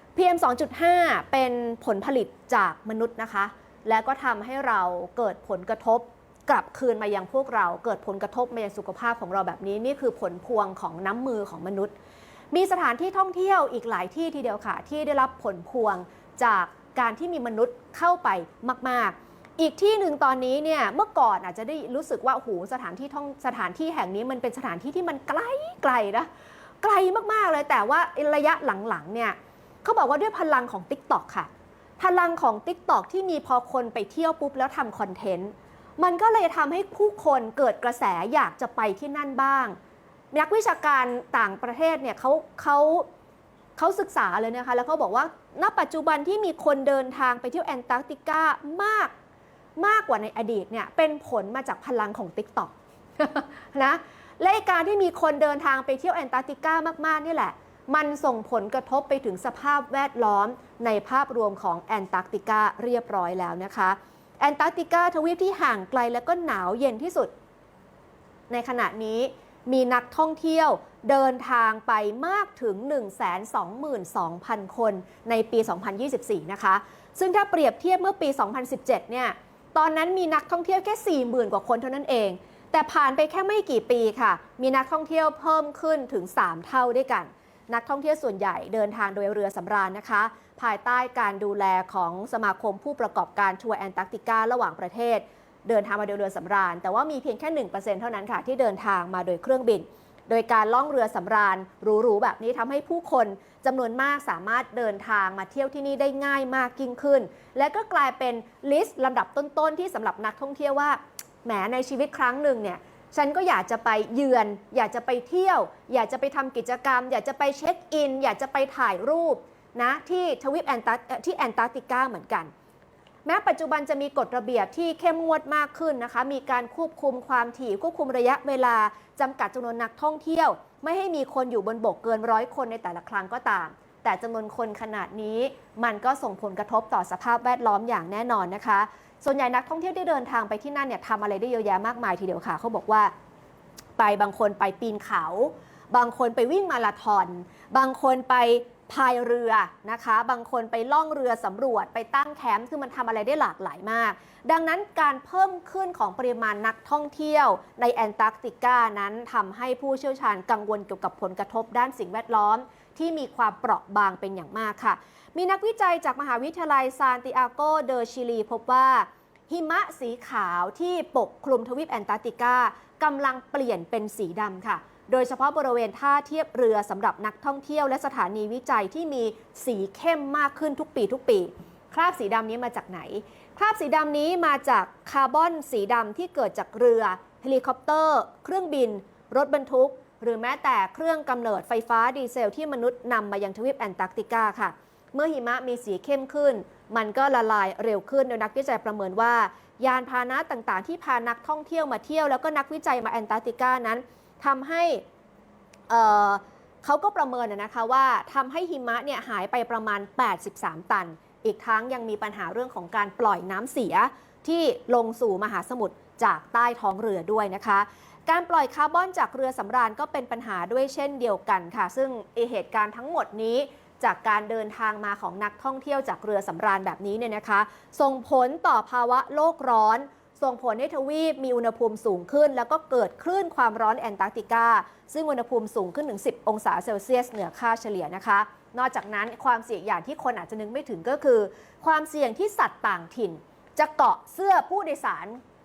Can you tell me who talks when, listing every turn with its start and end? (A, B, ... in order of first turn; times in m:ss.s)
0:00.1-0:11.9 A
0:12.5-0:26.3 A
0:26.8-0:39.8 A
0:40.3-0:43.0 A
0:43.8-0:49.1 A
0:49.8-1:07.3 A
1:08.5-2:02.5 A
2:03.2-2:23.1 A
2:24.0-3:25.0 A
3:25.9-4:05.4 A